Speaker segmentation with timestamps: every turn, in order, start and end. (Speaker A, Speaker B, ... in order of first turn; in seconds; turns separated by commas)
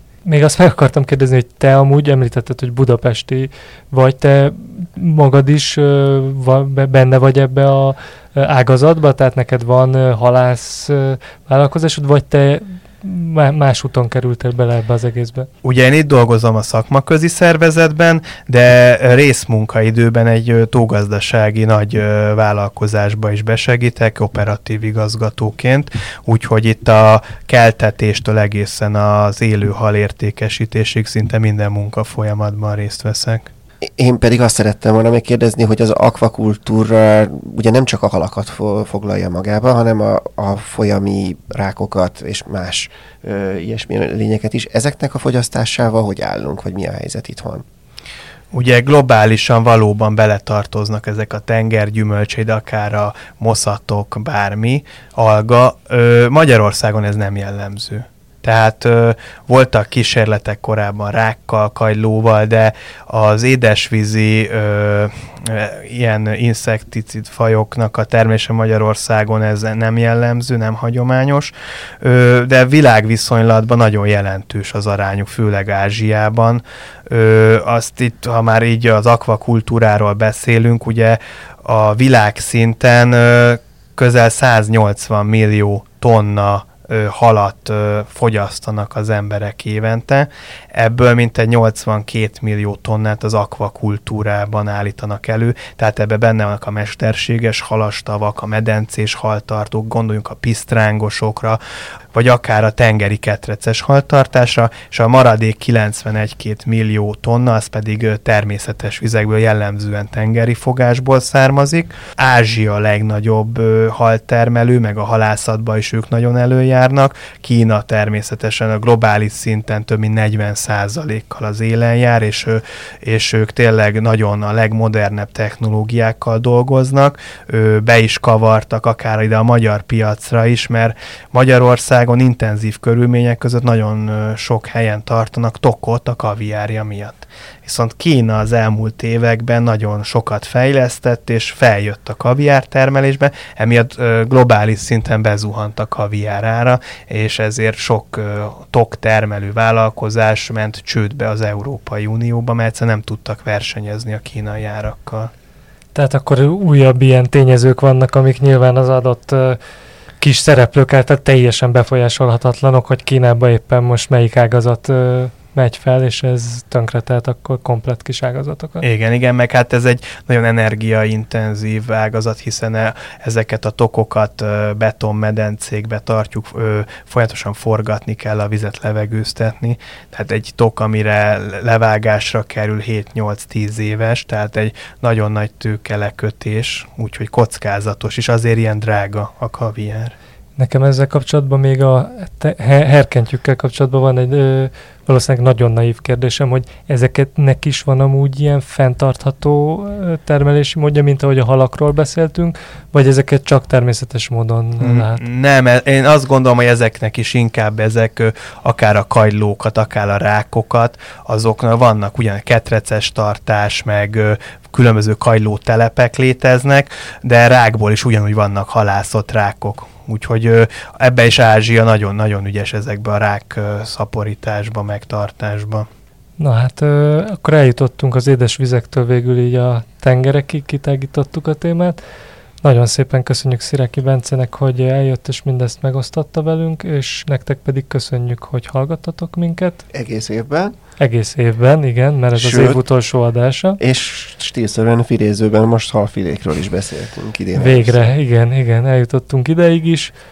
Speaker A: 0.3-15.5, Speaker B: 15.6-33.5, Speaker C: 33.9-47.6, Speaker B: 48.5-101.6, Speaker B: 102.1-155.3, Speaker A: 155.9-159.6, Speaker A: 160.2-168.8, Speaker B: 168.8-190.2, Speaker A: 190.6-205.2, Speaker B: 204.8-225.9, Speaker A: 226.4-232.0, Speaker A: 232.6-239.8, Speaker C: 239.9-240.8, Speaker A: 241.0-243.8, Speaker C: 242.4-242.8, Speaker C: 243.8-247.9, Speaker A: 247.6-250.1